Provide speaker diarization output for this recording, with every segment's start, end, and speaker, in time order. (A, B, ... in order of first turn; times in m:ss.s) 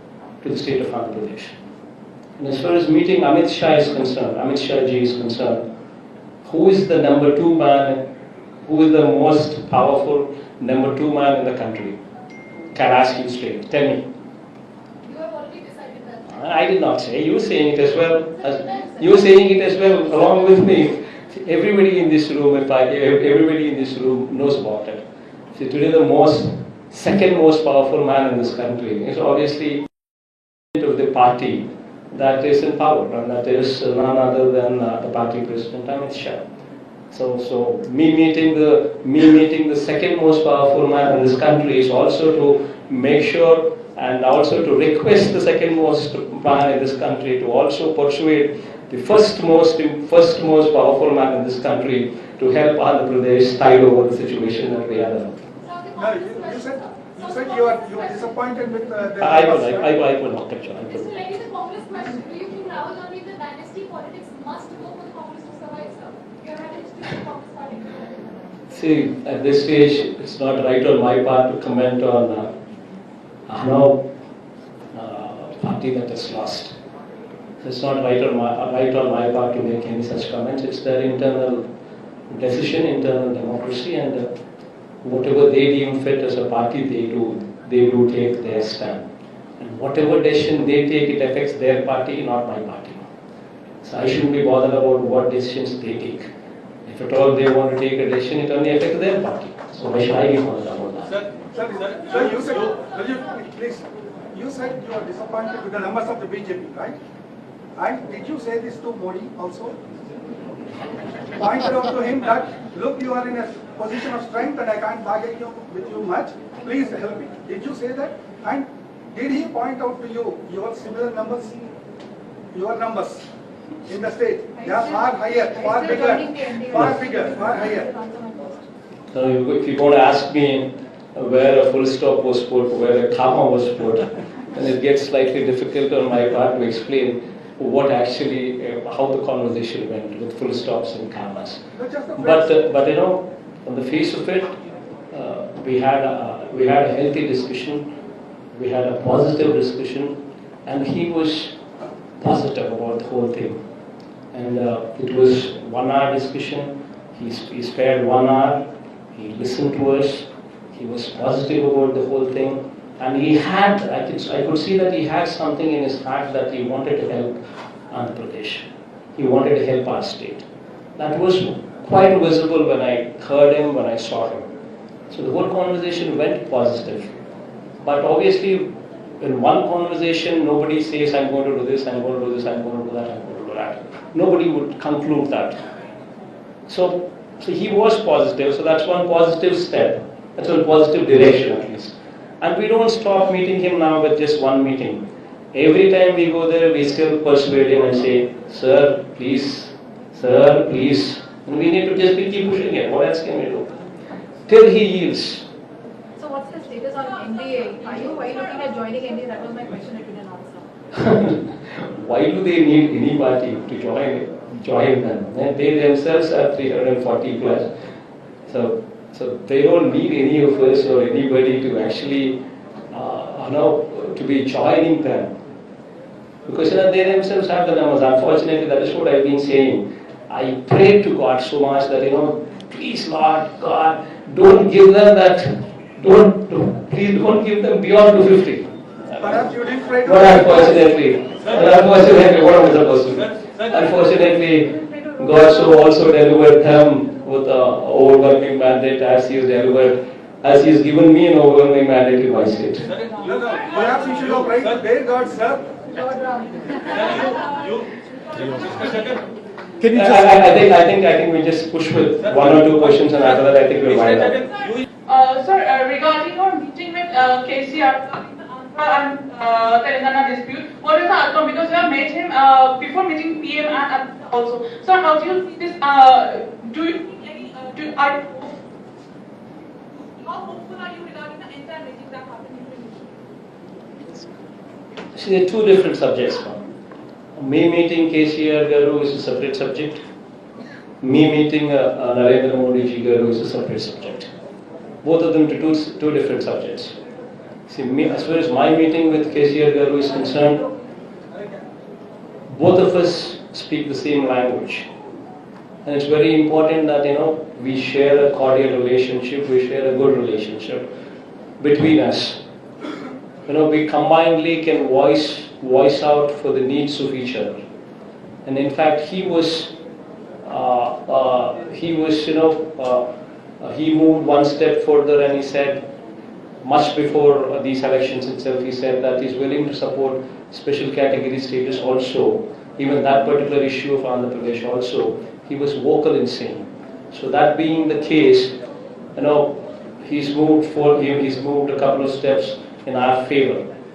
0:00.4-0:01.5 A
0:02.4-0:05.6 A
0:06.4-0:08.0 A
0:08.6-0:12.0 A
0:12.7-0:14.0 A
0:16.2-0:25.0 A
0:25.5-0:29.8 A
0:30.7-0:36.4 A
0:37.1-0:55.4 A
0:56.0-0:59.9 B
0:59.2-1:01.4 A
1:01.6-1:07.8 C
1:08.7-1:12.5 A
1:13.5-1:14.0 A
1:14.9-1:16.7 A
1:17.6-1:21.7 A
1:22.3-1:24.3 A
1:25.0-1:29.1 A
1:29.6-1:33.0 A
1:33.8-1:36.3 A
1:36.8-1:41.2 A
1:41.5-1:47.0 B
1:47.8-1:49.8 B
1:51.3-2:01.6 B
2:02.5-2:03.2 B
2:03.8-2:07.9 B
2:08.1-2:08.5 D
2:09.1-2:21.6 A
2:21.8-2:22.5 B
2:22.2-2:24.5 A
2:25.1-2:27.8 A
2:28.5-2:31.6 A
2:32.2-2:33.6 A
2:34.3-2:47.4 A
2:47.9-2:50.4 A
2:51.0-2:54.5 A
2:55.1-2:57.1 A
2:57.8-2:58.7 A
2:59.2-3:05.6 A
3:06.7-3:23.7 A
3:24.5-3:25.4 A
3:26.2-3:30.5 D
3:26.5-3:26.8 C
3:28.0-3:28.7 C
3:30.9-3:37.7 A
3:38.5-3:42.4 A
3:42.9-3:45.3 A
3:46.4-3:59.5 A
3:59.2-4:00.6 B
4:00.0-4:12.9 A
4:13.2-4:15.7 B
4:16.0-4:17.5 D
4:19.8-4:24.4 A
4:25.1-4:38.6 E
4:40.0-4:43.0 E
4:45.1-4:46.6 A
4:47.4-4:50.0 A
4:51.0-4:54.3 A
4:55.0-4:57.0 A
4:57.7-5:00.6 A
5:02.5-5:04.9 A
5:05.8-5:10.9 A
5:11.6-5:12.4 A
5:13.5-5:17.5 A
5:18.4-5:19.7 A
5:20.4-5:23.0 A
5:23.6-5:25.8 A
5:26.6-5:38.5 A
5:39.2-5:43.6 A